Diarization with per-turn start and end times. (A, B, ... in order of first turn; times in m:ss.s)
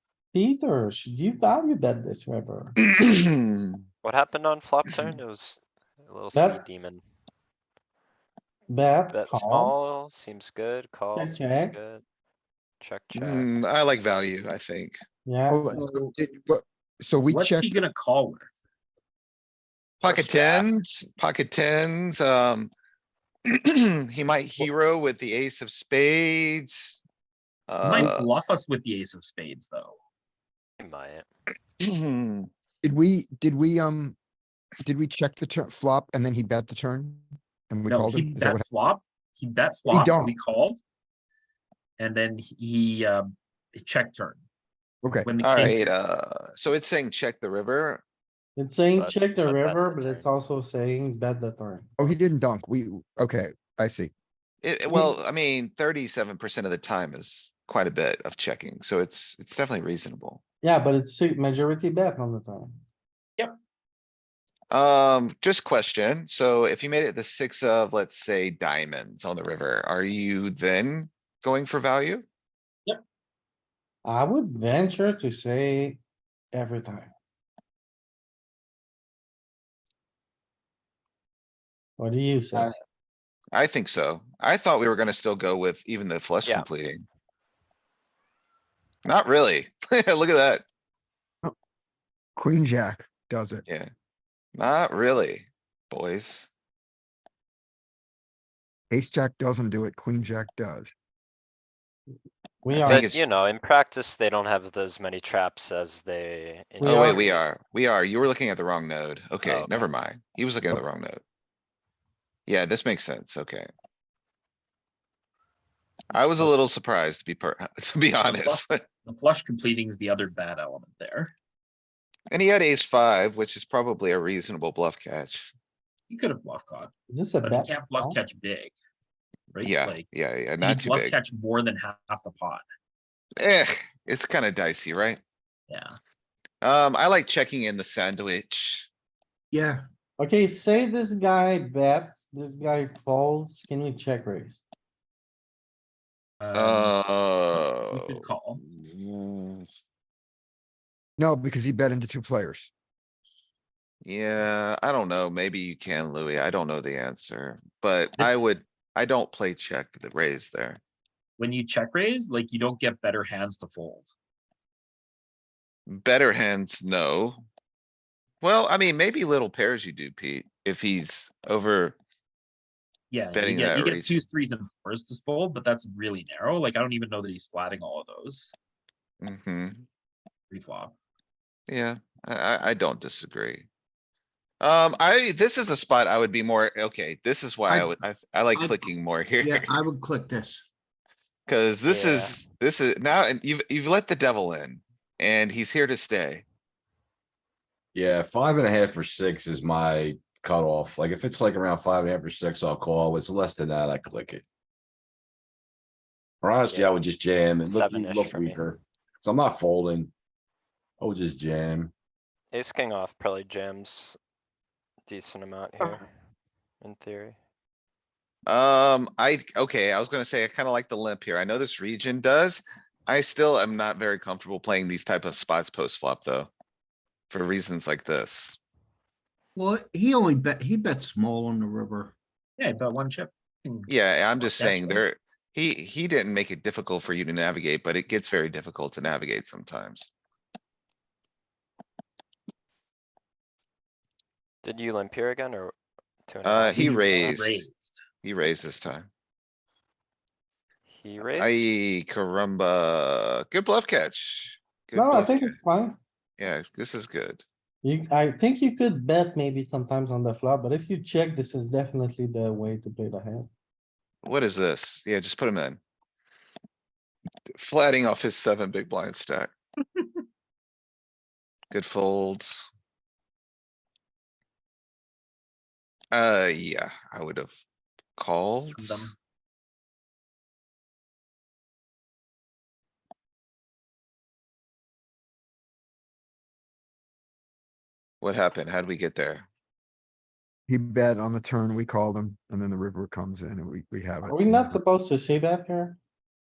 0:00.3-0:02.8 A
0:03.0-0:03.8 B
0:04.0-0:07.0 C
0:06.3-0:06.6 A
0:08.7-0:09.7 A
0:09.1-0:12.0 C
0:11.2-0:11.8 A
0:12.8-0:13.5 C
0:13.2-0:15.0 B
0:15.3-0:15.6 A
0:15.5-0:17.7 D
0:17.3-0:18.5 E
0:20.0-0:20.6 E
0:20.0-0:22.7 B
0:23.5-0:27.0 B
0:27.7-0:28.3 B
0:27.8-0:30.0 E
0:30.8-0:31.3 C
0:31.8-0:32.5 B
0:32.8-0:34.2 D
0:34.8-0:38.6 D
0:37.9-0:40.8 E
0:39.9-0:40.3 D
0:42.0-0:44.4 E
0:45.0-0:45.7 D
0:45.2-0:45.8 E
0:45.4-0:48.0 B
0:48.6-0:51.9 A
0:48.9-0:50.3 C
0:52.0-0:54.1 D
0:54.6-1:00.4 B
1:00.6-1:02.8 A
1:04.7-1:12.3 B
1:14.0-1:16.0 A
1:16.5-1:17.1 A
1:22.0-1:22.7 A
1:23.5-1:27.0 B
1:29.1-1:30.6 B
1:32.4-1:33.6 D
1:34.6-1:36.5 B
1:38.9-1:40.9 D
1:42.6-1:43.1 A
1:42.7-1:43.3 B
1:42.8-1:47.4 C
1:46.8-1:47.2 A
1:46.8-1:51.2 B
1:49.4-1:49.8 C
1:52.5-1:53.7 B
1:56.1-1:58.8 B
1:58.2-2:01.3 E
2:02.3-2:05.5 B
2:06.1-2:06.9 E
2:07.1-2:08.2 A
2:07.4-2:08.8 E
2:09.5-2:10.1 E
2:09.6-2:11.2 B
2:10.6-2:12.6 E
2:13.4-2:15.2 B
2:15.7-2:16.0 E
2:16.6-2:18.9 B
2:19.5-2:19.8 F
2:20.2-2:24.6 A
2:26.4-2:27.0 E
2:26.5-2:29.7 B
2:27.5-2:28.6 E
2:31.2-2:32.7 D
2:34.0-2:40.8 B
2:41.4-2:44.1 E
2:45.9-2:47.4 B
2:48.4-2:52.0 B
2:53.1-2:58.5 E
2:53.4-2:54.2 B
2:59.2-2:59.8 B
3:00.5-3:00.9 E
3:01.7-3:03.7 B
3:04.6-3:09.7 B
3:08.5-3:10.7 F
3:11.5-3:16.4 B
3:11.9-3:12.5 C
3:17.9-3:24.4 G
3:26.4-3:30.1 G
3:26.7-3:27.0 C
3:27.6-3:28.6 C
3:31.0-3:31.9 G
3:32.5-3:34.2 C
3:35.1-3:36.1 C
3:36.8-3:37.4 C
3:38.5-3:46.5 B
3:47.3-3:48.6 B
3:49.6-3:52.1 F
3:52.6-3:55.0 E
3:53.9-4:00.1 B
4:04.6-4:05.7 C
4:06.3-4:07.4 C
4:06.4-4:07.7 B
4:06.8-4:08.0 E
4:08.2-4:09.1 B
4:10.9-4:11.6 C
4:11.4-4:15.6 B
4:14.9-4:16.0 A
4:16.4-4:17.4 B
4:17.8-4:23.5 A
4:24.2-4:25.8 B
4:27.6-4:29.5 B
4:31.7-4:32.7 B
4:36.1-4:37.5 B
4:38.2-4:39.1 B
4:38.8-4:39.1 E
4:48.2-4:49.5 B
4:50.7-4:54.8 D
4:54.3-4:56.0 A